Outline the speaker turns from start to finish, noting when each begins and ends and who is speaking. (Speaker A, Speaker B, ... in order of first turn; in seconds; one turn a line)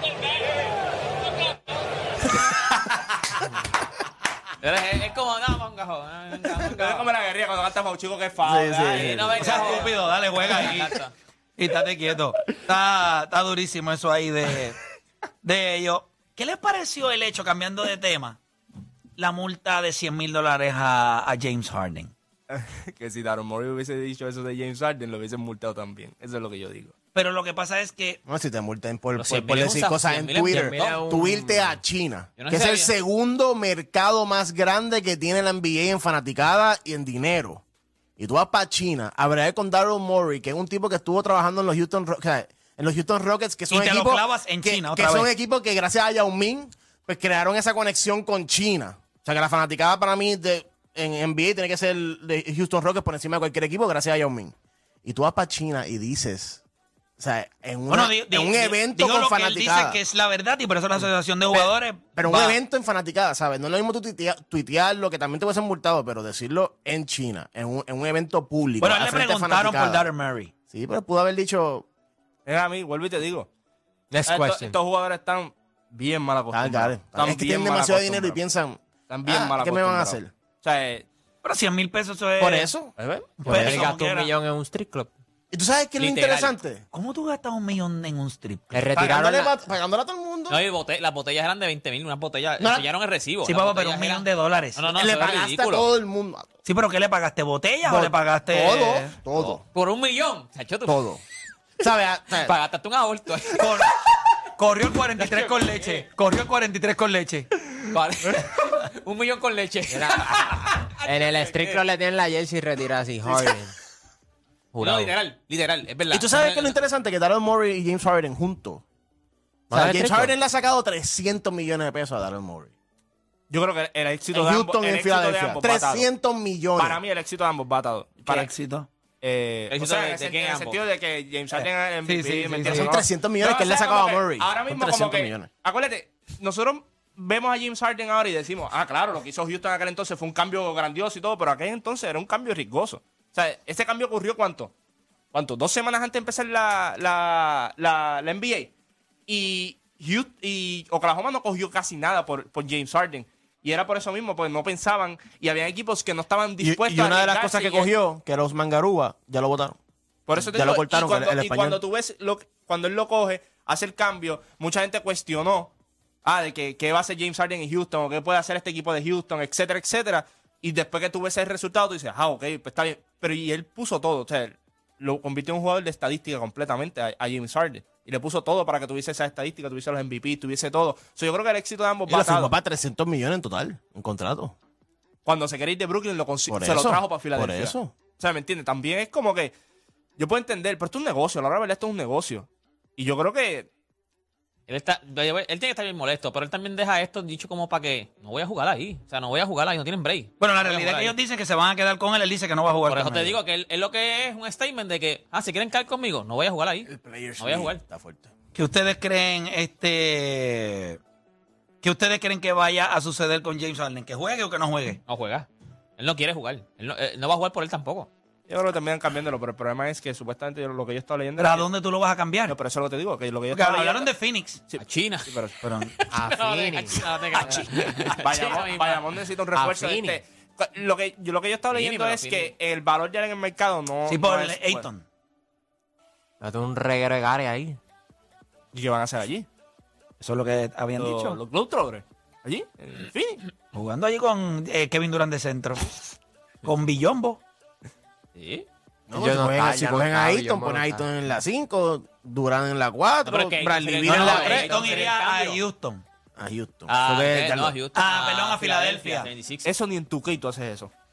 Speaker A: 4.6-7.1
Speaker B: 6.8-9.8
Speaker C: 8.4-9.6
Speaker A: 8.9-11.1
Speaker D: 9.4-11.0
Speaker D: 11.6-14.8
Speaker D: 15.4-18.4
Speaker D: 19.2-22.1
Speaker B: 22.5-26.9
Speaker D: 27.1-28.2
Speaker C: 28.3-37.6
Speaker A: 29.2-31.1
Speaker E: 30.5-31.8
Speaker A: 32.4-32.9
Speaker C: 38.2-56.6
Speaker D: 43.7-45.3
Speaker C: 57.2-60.0
Speaker D: 57.9-62.6
Speaker C: 61.5-70.1
Speaker D: 68.8-70.5
Speaker C: 70.7-71.8
Speaker B: 72.5-73.5
Speaker E: 74.1-74.8
Speaker B: 74.3-78.4
Speaker C: 76.5-80.3
Speaker B: 79.1-81.1
Speaker D: 81.4-82.7
Speaker C: 82.4-82.9
Speaker E: 83.4-85.1
Speaker D: 83.4-84.3
Speaker C: 83.5-83.8
Speaker C: 85.5-86.8
Speaker A: 86.0-86.5
Speaker D: 86.9-89.2
Speaker E: 88.7-89.6
Speaker C: 89.0-90.6
Speaker A: 90.5-95.9
Speaker C: 92.6-92.8
Speaker D: 93.5-94.8
Speaker C: 94.9-96.5
Speaker D: 96.7-99.2
Speaker C: 97.9-99.6
Speaker A: 99.3-101.1
Speaker C: 100.9-101.2
Speaker C: 101.8-102.5
Speaker A: 102.3-103.9
Speaker D: 103.5-107.7
Speaker A: 105.2-106.0
Speaker A: 107.7-111.8
Speaker E: 109.9-113.7
Speaker A: 114.7-116.8
Speaker E: 114.8-115.1
Speaker C: 116.1-118.8
Speaker C: 119.7-122.7
Speaker E: 119.7-120.3
Speaker B: 123.5-126.1
Speaker C: 124.3-127.0
Speaker B: 126.8-128.5
Speaker D: 128.3-128.9
Speaker B: 129.2-144.7
Speaker A: 129.7-130.8
Speaker D: 132.1-132.9
Speaker C: 132.7-135.5
Speaker B: 145.3-148.7
Speaker B: 149.3-157.9
Speaker C: 156.6-159.8
Speaker B: 160.3-165.7
Speaker C: 160.4-161.8
Speaker B: 166.2-182.5
Speaker C: 182.1-184.6
Speaker B: 185.3-189.5
Speaker C: 186.5-187.9
Speaker B: 190.2-193.7
Speaker A: 194.7-201.2
Speaker D: 200.4-203.4
Speaker A: 202.9-207.8
Speaker C: 206.9-208.3
Speaker D: 208.6-211.0
Speaker D: 211.8-215.0
Speaker A: 215.1-215.5
Speaker A: 216.0-218.1
Speaker B: 218.5-221.7
Speaker D: 221.4-222.6
Speaker B: 222.5-224.1
Speaker D: 223.5-224.6
Speaker B: 224.7-225.6
Speaker A: 224.8-225.4
Speaker D: 225.6-225.9
Speaker A: 225.9-229.2
Speaker E: 226.1-227.0
Speaker D: 227.3-228.2
Speaker B: 228.2-234.8
Speaker E: 229.6-230.2
Speaker A: 231.7-232.5
Speaker D: 234.1-235.0
Speaker E: 236.4-237.8
Speaker B: 238.7-239.5
Speaker D: 240.2-241.4
Speaker B: 241.0-243.4
Speaker D: 243.7-245.9
Speaker D: 246.6-247.4
Speaker A: 248.3-248.7
Speaker C: 249.1-254.8
Speaker E: 249.1-251.1
Speaker A: 253.3-255.6
Speaker D: 254.1-256.0
Speaker C: 256.4-257.8
Speaker A: 256.9-259.7
Speaker D: 257.9-259.3
Speaker B: 259.6-260.9